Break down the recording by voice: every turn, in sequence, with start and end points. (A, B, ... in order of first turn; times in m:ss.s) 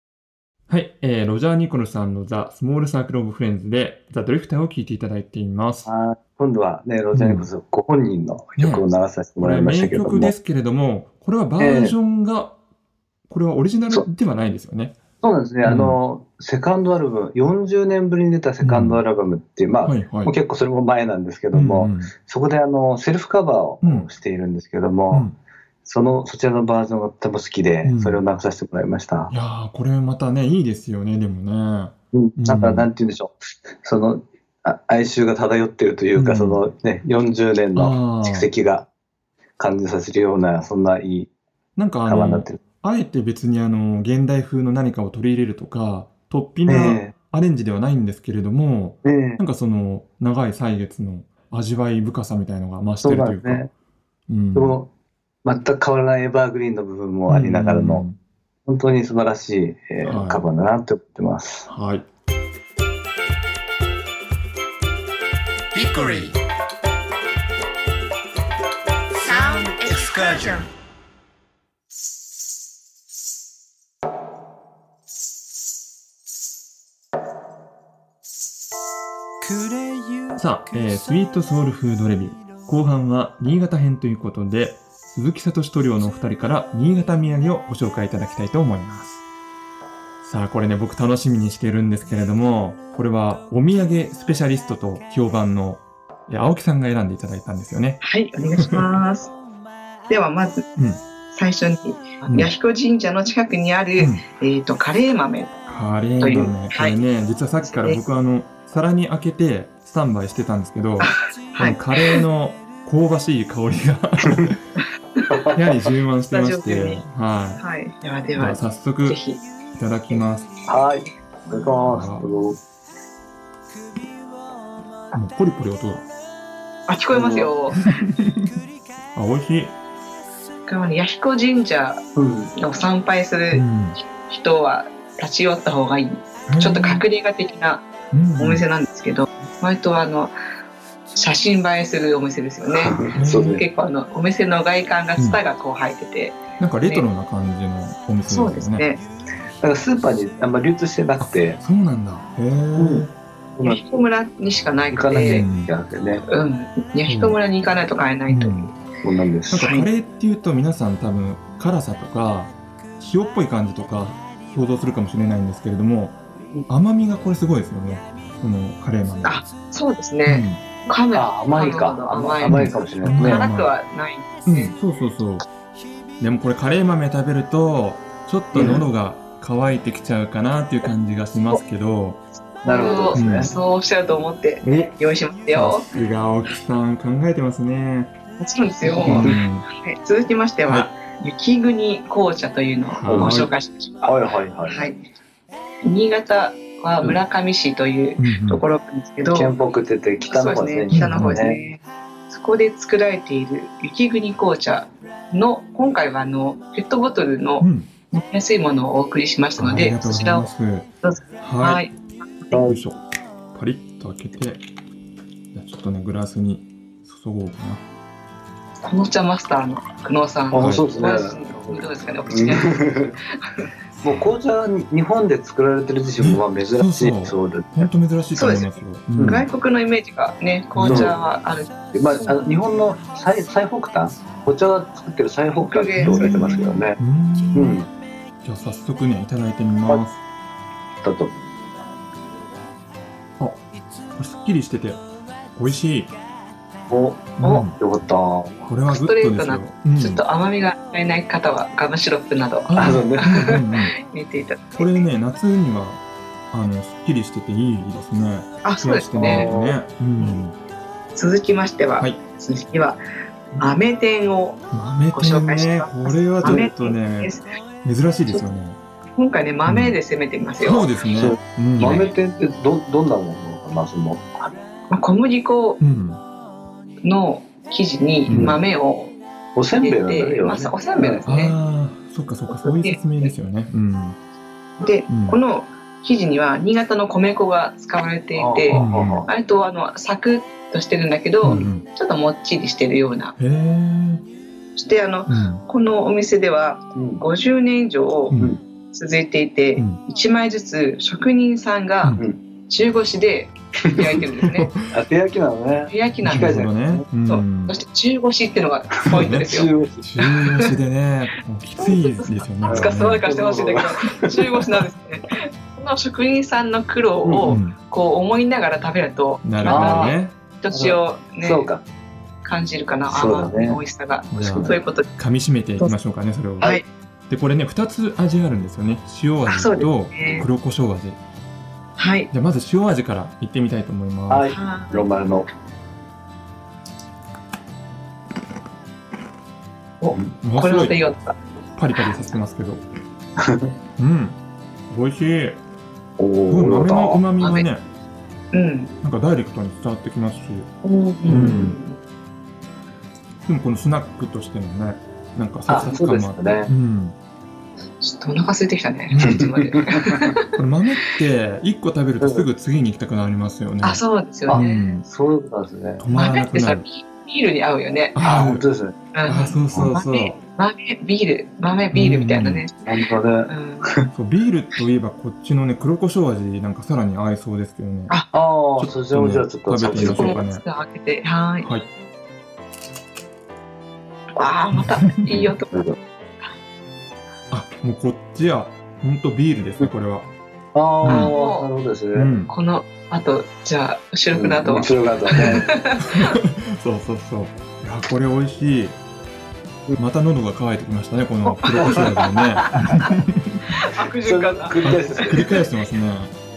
0:00.7-0:05.9 A
0:05.9-0:10.3 B
0:07.1-0:07.5 A
0:08.6-0:08.8 A
0:09.4-0:12.6 A
0:11.6-0:12.0 B
0:13.3-0:15.0 A
0:15.2-0:25.3 B
0:15.6-0:16.0 A
0:18.6-0:19.0 A
0:19.8-0:20.3 A
0:21.5-0:22.1 A
0:23.8-0:24.1 A
0:25.1-0:25.4 A
0:25.8-0:29.3 B
0:27.8-0:28.2 A
0:29.3-0:32.9 A
0:32.1-0:38.9 B
0:36.2-0:36.6 A
0:37.8-0:38.5 A
0:39.6-0:41.3 B
0:41.8-0:53.7 A
0:42.1-0:42.6 B
0:46.7-0:47.1 B
0:49.0-0:49.4 B
0:53.0-0:53.7 B
0:54.3-0:54.8 A
0:54.6-0:54.9 B
0:55.4-0:58.0 B
0:57.3-0:58.2 A
0:58.7-1:01.7 B
1:00.0-1:00.4 A
1:01.7-1:02.1 A
1:05.8-1:06.3 C
1:06.0-1:06.3 A
1:09.2-1:10.7 C
1:19.5-1:20.3 C
1:20.4-1:29.2 A
1:30.2-1:38.0 A
1:38.0-1:39.3 D
1:38.6-1:38.8 A
1:40.1-1:40.7 D
1:40.8-1:41.0 A
1:41.3-1:45.6 D
1:42.3-1:42.5 A
1:44.0-1:44.2 A
1:45.7-1:54.6 A
1:46.2-1:47.0 D
1:47.6-1:48.0 D
1:51.0-1:52.2 D
1:55.2-1:55.6 D
1:55.3-1:55.6 B
1:55.5-1:57.6 A
1:56.3-1:57.0 D
1:57.6-1:59.5 D
1:58.4-1:59.2 A
1:59.8-2:00.5 A
2:00.7-2:02.6 B
2:01.9-2:02.2 A
2:05.1-2:06.1 A
2:06.9-2:07.9 D
2:07.1-2:07.5 B
2:07.7-2:08.6 A
2:09.2-2:09.8 A
2:10.7-2:20.4 D
2:12.2-2:12.5 B
2:13.5-2:14.0 A
2:16.5-2:17.0 A
2:18.1-2:18.6 A
2:21.2-2:27.0 D
2:22.7-2:23.6 B
2:23.1-2:23.5 A
2:26.6-2:28.8 A
2:28.3-2:29.0 D
2:29.6-2:31.6 B
2:31.2-2:33.1 A
2:32.8-2:33.8 B
2:33.6-2:35.5 D
2:34.9-2:36.2 B
2:35.2-2:35.7 A
2:36.3-2:38.8 D
2:37.1-2:37.4 A
2:38.3-2:38.7 A
2:39.0-2:39.7 B
2:39.5-2:49.4 A
2:39.6-2:39.9 D
2:49.2-2:54.7 D
2:50.3-2:50.6 A
2:51.1-2:53.5 B
2:52.5-2:53.7 A
2:54.5-2:55.5 A
2:56.2-3:02.2 A
2:58.5-2:58.8 B
3:02.6-3:05.9 D
3:02.6-3:03.5 B
3:03.2-3:03.5 A
3:04.6-3:05.0 A
3:05.5-3:08.1 A
3:08.4-3:14.1 D
3:09.0-3:09.4 B
3:09.0-3:09.7 A
3:12.9-3:13.5 A
3:13.1-3:13.5 B
3:14.0-3:14.9 B
3:14.7-3:15.0 D
3:15.8-3:19.6 D
3:18.2-3:18.6 A
3:19.3-3:21.6 B
3:20.3-3:30.5 D
3:20.9-3:21.4 A
3:27.6-3:27.9 A
3:29.6-3:30.9 A
3:31.0-3:32.5 D
3:31.4-3:31.8 A
3:32.5-3:32.8 B
3:32.5-3:33.0 A
3:33.5-3:34.6 A
3:35.5-3:37.8 A
3:38.8-3:43.7 D
3:40.5-3:43.2 B
3:40.6-3:40.9 A
3:44.0-3:44.3 A
3:44.0-3:47.9 B
3:46.2-3:49.4 A
3:48.4-3:52.5 D
3:49.2-3:49.4 B
3:50.7-3:51.1 A
3:50.8-3:51.2 B
3:51.9-3:57.0 B
3:55.6-3:56.8 D
3:56.0-3:57.8 A
3:57.5-3:57.9 B
3:58.4-4:00.2 A
4:01.0-4:01.4 B
4:04.2-4:05.0 A
4:05.6-4:06.2 A
4:06.9-4:08.7 B
4:07.4-4:07.8 A
4:08.7-4:10.2 A
4:08.9-4:15.0 D
4:12.7-4:13.9 A
4:12.8-4:13.6 B
4:14.8-4:20.6 A
4:18.6-4:19.5 D
4:19.1-4:19.8 B
4:21.2-4:23.0 D
4:23.6-4:27.4 D
4:24.7-4:28.8 A
4:29.2-4:30.9 D
4:29.7-4:30.0 A
4:30.6-4:32.1 A
4:31.1-4:34.5 B
4:34.9-4:35.8 D
4:35.8-4:36.2 A
4:37.0-4:39.2 D
4:38.3-4:38.6 A
4:38.3-4:38.6 B
4:39.6-4:41.2 B
4:39.8-4:41.6 D
4:41.3-4:44.2 A
4:42.5-4:43.3 D
4:44.8-4:53.3 D
4:45.1-4:45.4 A
4:48.4-4:49.3 B
4:48.7-4:49.3 A
4:51.4-4:51.8 A
4:53.4-4:54.2 A
4:54.8-4:58.4 D
4:55.3-4:55.6 A
4:57.0-4:57.2 B
4:58.3-4:58.6 A
4:58.9-5:04.7 D
5:03.8-5:04.2 B
5:04.2-5:04.9 A
5:04.9-5:07.1 B
5:05.9-5:06.6 D
5:06.2-5:07.8 A
5:07.3-5:09.7 D
5:09.0-5:13.3 A
5:09.1-5:10.0 B
5:10.2-5:10.8 D
5:11.8-5:21.7 D
5:12.6-5:14.8 B
5:17.2-5:17.6 B
5:17.5-5:17.8 A
5:19.4-5:20.4 A
5:19.7-5:20.2 B
5:20.7-5:21.8 B
5:22.4-5:25.1 D
5:23.1-5:23.8 B
5:24.3-5:26.8 A
5:24.4-5:24.8 B
5:26.6-5:26.9 D
5:27.3-5:31.2 A
5:29.5-5:30.5 D
5:32.0-5:32.3 D
5:32.3-5:34.5 A
5:34.3-5:35.5 B
5:34.5-5:35.1 D
5:40.0-5:41.4 D
5:40.4-5:41.0 A
5:41.7-5:42.8 A
5:43.4-5:43.7 B
5:44.0-5:44.4 A
5:44.9-5:45.6 A
5:46.2-5:47.2 B
5:46.5-5:47.8 A
5:47.4-5:47.7 D
5:48.5-5:48.9 D
5:49.0-5:50.7 A
5:50.8-5:52.0 D
5:51.3-5:51.7 B
5:51.3-5:51.8 A
5:53.5-5:57.2 A
5:55.7-5:56.7 B
5:58.0-6:00.5 D
5:59.1-5:59.5 A
5:59.3-6:00.3 B
6:00.6-6:05.0 A
6:02.2-6:02.5 B
6:03.8-6:04.8 D
6:04.5-6:06.0 B
6:06.0-6:06.8 A
6:06.2-6:08.2 D
6:08.2-6:08.7 A
6:08.2-6:09.0 B
6:09.1-6:12.8 D
6:09.3-6:10.4 A
6:11.9-6:12.6 A
6:12.9-6:14.1 B
6:13.5-6:13.9 D
6:14.1-6:18.2 A
6:18.3-6:20.4 B
6:18.8-6:20.6 A
6:19.9-6:21.7 D
6:21.6-6:21.9 A
6:24.4-6:25.7 D
6:24.8-6:25.4 A
6:25.3-6:26.0 B
6:27.5-6:30.3 A
6:30.7-6:32.3 B
6:31.0-6:31.7 D
6:31.0-6:31.3 A
6:32.1-6:32.5 A
6:32.5-6:36.4 D
6:34.3-6:35.7 B
6:35.4-6:39.0 A
6:40.0-6:43.8 A
6:41.6-6:42.1 D
6:41.7-6:42.9 B
6:42.8-6:43.2 D
6:43.7-6:45.6 D
6:44.2-6:45.6 B
6:44.8-6:46.3 A